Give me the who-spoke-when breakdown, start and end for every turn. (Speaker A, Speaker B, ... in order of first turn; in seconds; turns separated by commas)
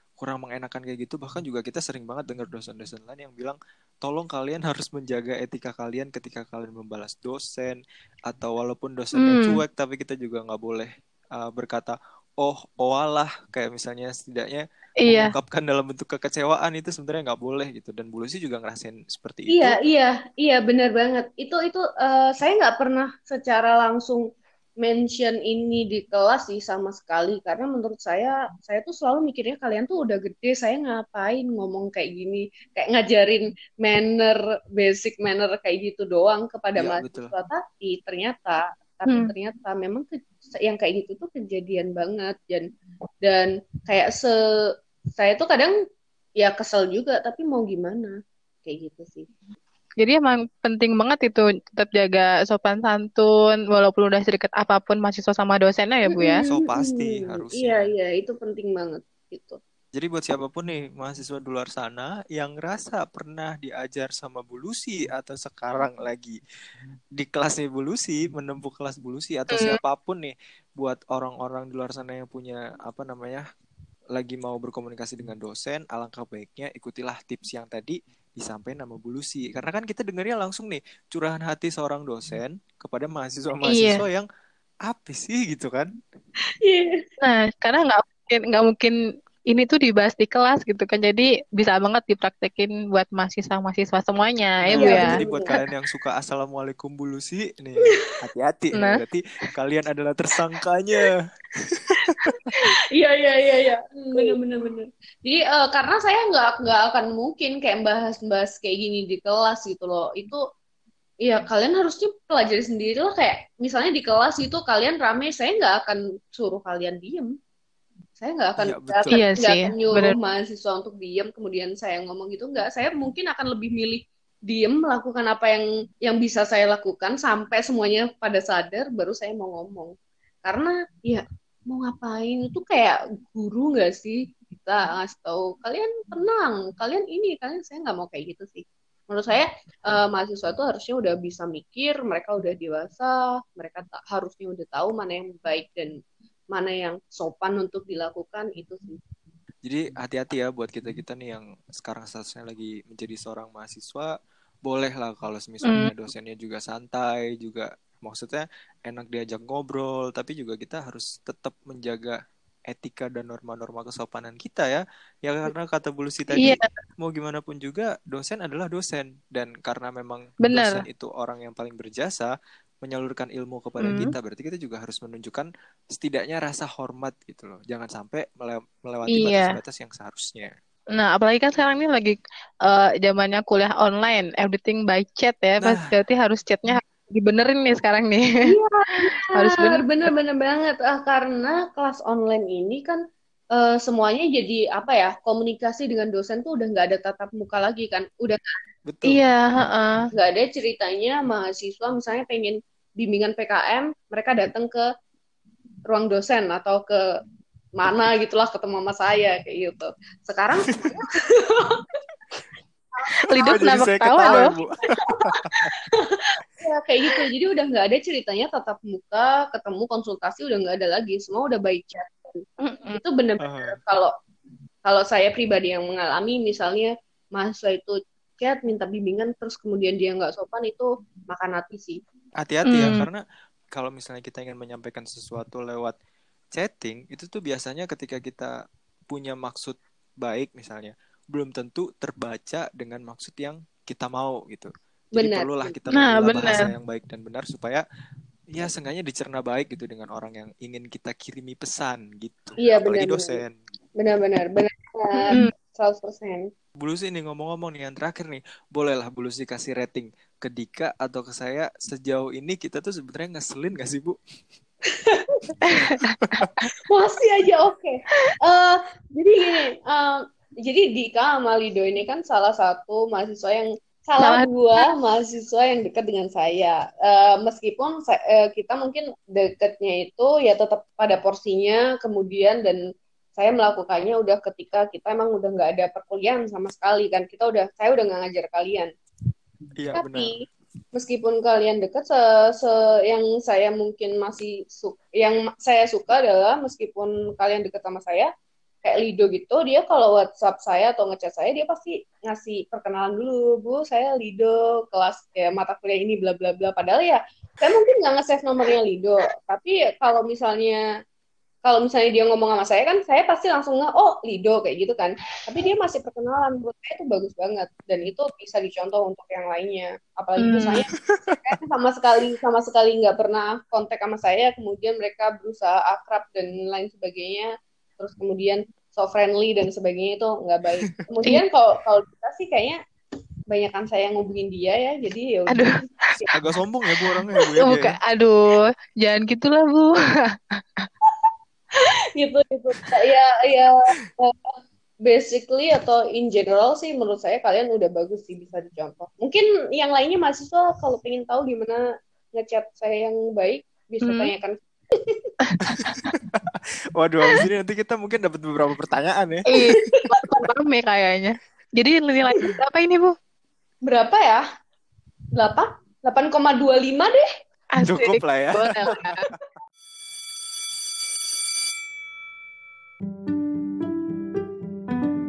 Speaker A: 0.2-19.8, Speaker B: 9.2-9.6, Speaker B: 15.0-15.3, Speaker C: 19.5-24.2, Speaker C: 24.8-42.7, Speaker A: 36.8-37.3, Speaker C: 43.2-44.4, Speaker C: 45.2-45.7, Speaker C: 46.4-49.3, Speaker B: 50.0-56.4, Speaker C: 56.1-59.6, Speaker A: 56.4-57.9, Speaker A: 59.9-66.4, Speaker A: 67.2-73.4, Speaker B: 69.5-69.8, Speaker A: 74.1-84.2, Speaker B: 83.7-84.0, Speaker A: 84.8-85.9, Speaker C: 86.6-87.0, Speaker B: 87.2-88.9, Speaker B: 89.5-95.6, Speaker A: 94.6-102.5, Speaker C: 94.7-95.6, Speaker C: 102.0-110.4, Speaker C: 111.2-117.3, Speaker C: 118.2-129.9, Speaker A: 118.6-119.2, Speaker B: 119.1-120.1, Speaker C: 130.4-145.9, Speaker C: 146.5-149.0, Speaker A: 149.6-154.1, Speaker A: 154.6-180.5, Speaker B: 155.6-155.9, Speaker B: 166.3-166.7, Speaker B: 170.4-170.8, Speaker B: 173.8-174.1, Speaker B: 179.1-179.6, Speaker B: 180.9-188.4, Speaker A: 185.6-185.9, Speaker C: 188.4-193.0, Speaker B: 189.1-189.8, Speaker C: 193.5-198.5, Speaker A: 198.8-199.2, Speaker B: 199.1-200.1, Speaker C: 200.1-204.8, Speaker C: 205.9-207.0, Speaker C: 207.8-211.8, Speaker C: 213.1-213.7, Speaker B: 213.3-214.5, Speaker A: 213.4-215.8, Speaker C: 214.2-222.4, Speaker B: 222.6-223.0, Speaker C: 222.9-224.1, Speaker A: 223.4-223.8, Speaker C: 224.8-232.0, Speaker A: 232.4-235.9, Speaker B: 232.7-233.1, Speaker A: 236.5-238.5, Speaker A: 239.1-247.8, Speaker C: 245.2-245.8, Speaker B: 245.9-246.7, Speaker A: 248.5-253.5, Speaker C: 252.6-253.4, Speaker C: 254.0-256.5, Speaker A: 256.8-264.2, Speaker C: 264.9-265.5, Speaker B: 265.6-266.5, Speaker A: 266.3-266.7, Speaker C: 266.9-282.8, Speaker B: 274.2-274.9, Speaker C: 283.4-288.9, Speaker A: 289.8-290.4, Speaker C: 289.9-290.4, Speaker C: 290.9-298.3, Speaker C: 298.8-310.8, Speaker C: 311.6-320.9, Speaker B: 320.4-320.8, Speaker A: 320.9-321.5, Speaker C: 321.4-332.8, Speaker C: 333.5-336.3, Speaker A: 336.3-338.0, Speaker B: 337.2-339.9, Speaker C: 341.8-351.8, Speaker C: 352.4-355.3, Speaker B: 354.0-354.3, Speaker B: 355.4-356.0, Speaker A: 355.6-359.4, Speaker B: 359.5-363.1, Speaker C: 359.6-360.2, Speaker C: 363.9-364.4, Speaker C: 365.3-367.2, Speaker B: 367.8-369.2, Speaker A: 367.8-369.4